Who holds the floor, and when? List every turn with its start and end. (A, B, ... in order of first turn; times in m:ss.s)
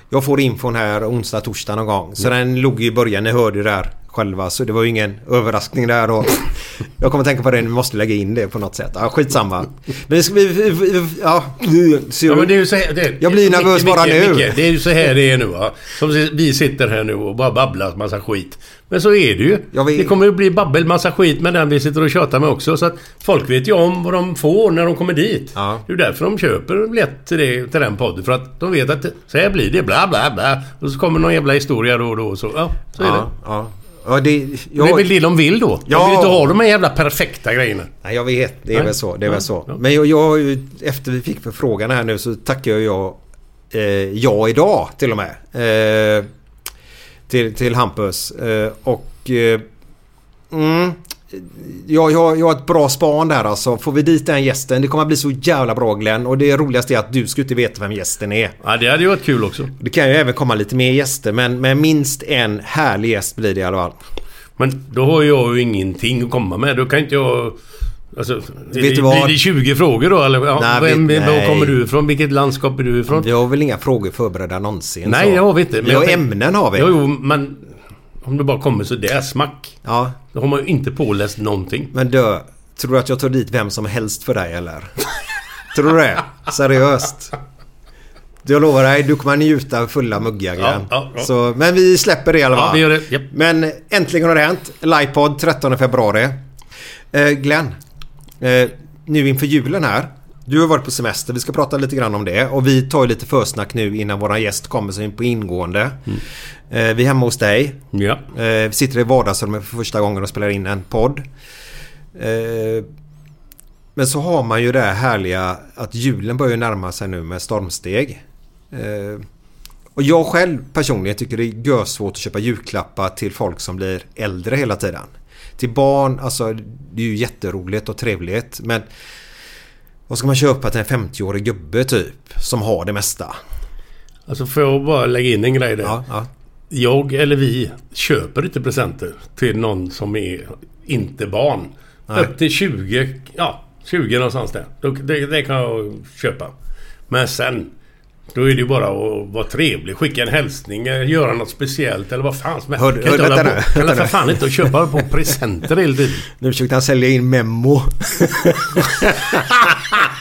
0:00.1-0:12.6 A
0:12.3-0:33.3 B
0:13.2-0:14.6 A
0:19.7-0:20.1 A
0:25.5-0:25.8 A
0:33.0-0:35.1 A
0:34.8-0:37.9 B
0:35.8-0:36.5 A
0:38.0-0:43.2 A
0:38.7-0:39.7 B
0:43.7-0:46.3 A
0:47.3-0:49.6 A
0:50.5-0:58.6 A
0:58.6-0:59.7 B
0:59.8-1:04.0 A
1:04.6-1:07.6 B
1:08.1-1:13.3 B
1:08.7-1:09.4 A
1:10.5-1:11.8 A
1:13.1-1:17.0 A
1:15.0-1:16.2 B
1:16.7-1:19.8 B
1:19.8-1:20.2 A
1:20.3-1:21.9 B
1:21.9-1:25.0 A
1:25.7-1:27.3 A
1:28.4-1:36.4 A
1:30.6-1:31.3 B
1:32.5-1:33.3 B
1:37.1-1:37.7 A
1:38.4-1:51.2 A
1:47.9-1:48.2 B
1:52.1-1:52.8 A
1:54.0-1:59.2 A
2:00.0-2:08.8 A
2:10.1-2:13.4 A
2:14.3-2:16.0 B
2:15.8-2:16.3 A
2:16.7-2:26.5 B
2:27.1-2:27.7 B
2:28.3-2:36.2 B
2:32.8-2:34.7 A
2:36.4-2:39.9 A